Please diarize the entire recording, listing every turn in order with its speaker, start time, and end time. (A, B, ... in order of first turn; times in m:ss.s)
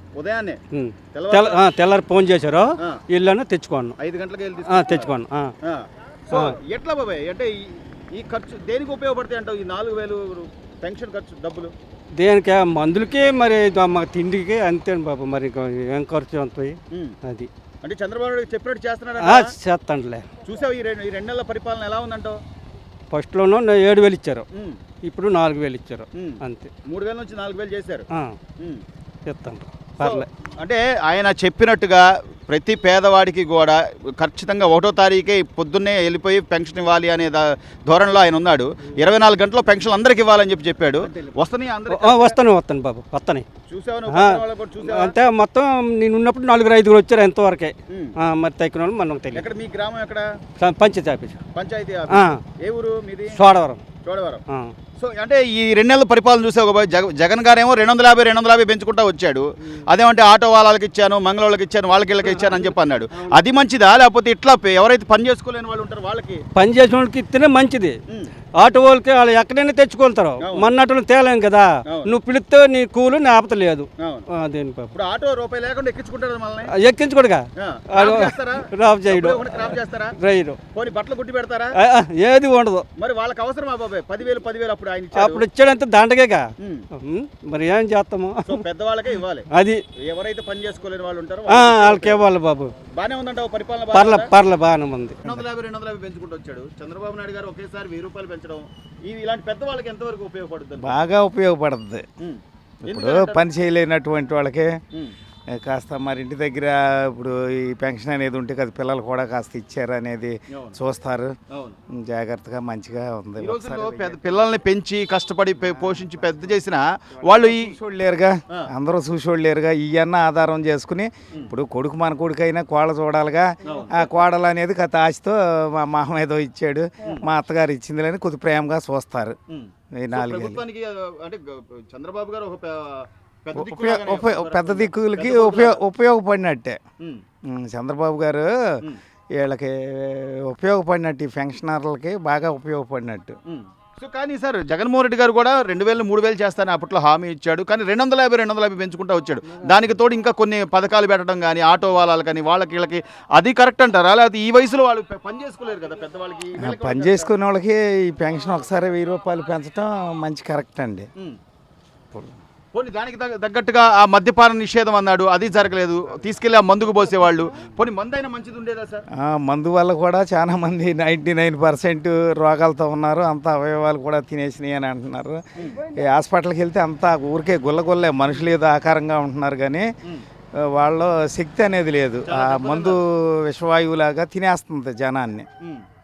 0:00.2-0:00.6 A
0:00.7-0:04.0 B
0:01.1-0:01.6 A
0:04.0-0:11.7 A
0:04.7-0:05.5 B
0:12.2-0:17.5 B
0:17.8-0:19.5 A
0:19.2-0:20.3 B
0:20.4-0:22.4 A
0:23.1-0:24.4 B
0:24.5-0:24.8 A
0:25.0-0:26.7 B
0:26.2-0:28.1 A
0:28.1-0:28.4 B
0:29.3-0:30.3 B
0:30.0-0:42.4 A
0:41.9-0:43.5 B
0:43.7-0:45.2 A
0:44.1-0:49.5 B
0:49.3-0:50.3 A
0:50.6-0:51.4 B
0:51.6-0:53.4 A
0:52.1-0:52.4 B
0:53.3-0:53.8 B
0:54.0-0:54.4 A
0:55.0-1:06.4 A
1:02.2-1:03.4 B
1:06.6-1:08.0 B
1:08.6-1:14.9 B
1:10.4-1:10.7 A
1:11.9-1:12.1 A
1:14.9-1:16.7 A
1:16.7-1:20.6 B
1:17.6-1:20.1 A
1:20.7-1:21.7 A
1:21.8-1:22.8 B
1:23.0-1:25.5 A
1:25.1-1:28.6 B
1:28.4-1:29.5 A
1:29.5-1:29.8 B
1:30.0-1:32.2 A
1:31.5-1:32.7 B
1:33.0-1:34.3 A
1:33.9-1:35.2 B
1:35.2-1:41.0 A
1:40.8-1:42.0 C
1:42.2-1:43.5 A
1:42.8-1:44.7 C
1:45.5-1:51.3 C
1:50.5-1:50.8 A
1:51.5-1:51.8 A
1:51.9-1:54.4 C
1:53.4-1:57.8 A
1:55.6-1:56.6 C
1:57.2-2:09.4 C
2:03.6-2:04.1 A
2:09.5-2:15.8 A
2:10.0-2:10.6 C
2:13.5-2:16.8 C
2:17.5-2:18.5 C
2:19.4-2:23.4 C
2:23.5-2:37.3 A
2:36.6-2:41.1 C
2:42.7-2:49.0 A
2:49.2-2:59.9 C
2:55.6-2:55.8 A
3:00.6-3:05.5 C
3:02.3-3:03.0 A